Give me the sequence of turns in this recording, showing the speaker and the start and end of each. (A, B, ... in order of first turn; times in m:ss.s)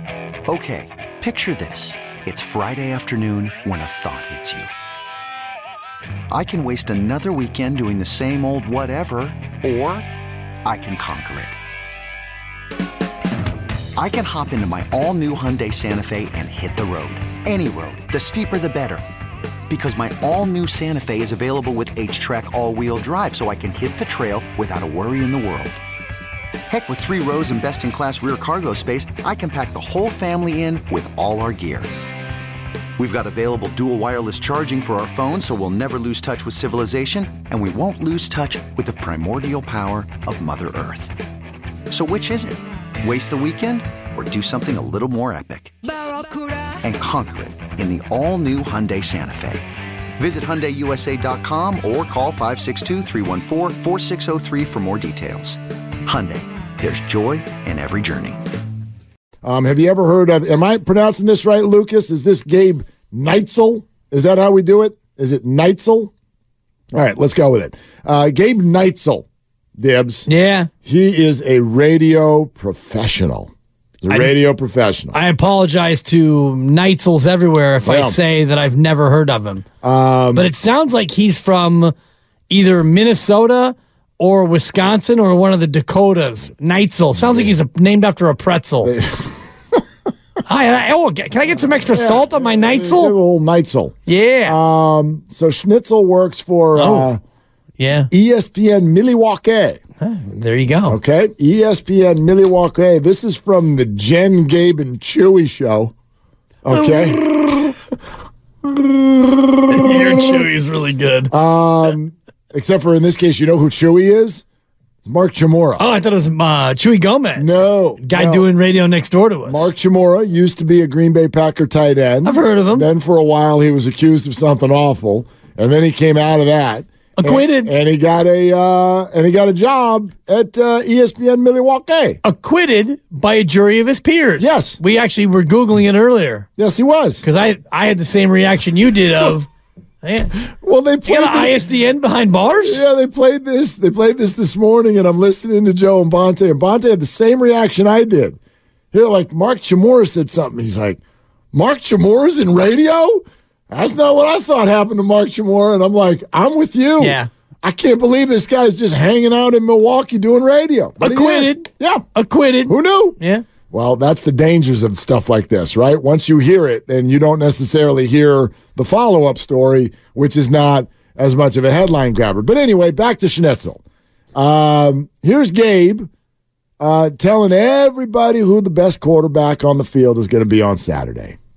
0:00.5-0:04.7 A
0:06.3-0:10.1 A
0:10.6-0:11.6 A
0:14.0-0:19.0 A
0:19.7-0:25.8 A
0:26.7-0:31.9 A
0:33.0-0:41.1 A
0:41.9-0:45.7 A
0:46.8-0:49.6 A
0:50.2-0:58.4 A
0:59.4-1:06.1 B
1:06.9-1:09.3 B
1:09.8-1:10.3 B
1:10.3-1:10.7 C
1:10.8-1:13.5 B
1:14.0-1:15.2 B
1:15.1-1:19.6 C
1:17.8-1:18.2 B
1:19.8-1:20.5 B
1:20.3-1:21.9 C
1:22.5-1:28.9 C
1:27.2-1:27.5 B
1:28.8-1:29.4 B
1:30.5-1:33.2 C
1:31.9-1:37.2 B
1:34.1-1:34.6 C
1:36.8-1:37.1 C
1:37.8-1:38.1 C
1:38.1-1:39.8 B
1:40.0-1:41.0 C
1:40.9-1:45.9 B
1:46.6-1:47.8 B
1:46.7-1:47.3 C
1:48.6-1:50.4 B
1:49.7-1:51.3 C
1:51.3-1:54.4 B
1:55.0-1:55.9 B
1:55.8-1:59.7 C
1:57.4-1:58.5 B
1:59.4-2:12.2 B
2:02.2-2:02.9 C
2:07.2-2:07.7 C
2:12.2-2:16.5 C
2:14.4-2:14.8 B
2:16.6-2:17.2 B
2:17.2-2:19.5 C
2:20.0-2:20.3 C
2:20.5-2:21.6 B
2:21.0-2:22.8 C
2:22.6-2:28.4 B
2:28.9-2:31.0 B
2:31.5-2:42.1 B
2:37.0-2:37.3 C
2:41.0-2:43.4 C
2:42.7-2:43.2 B
2:43.7-2:53.8 B
2:54.4-2:56.1 B
2:56.8-3:01.4 B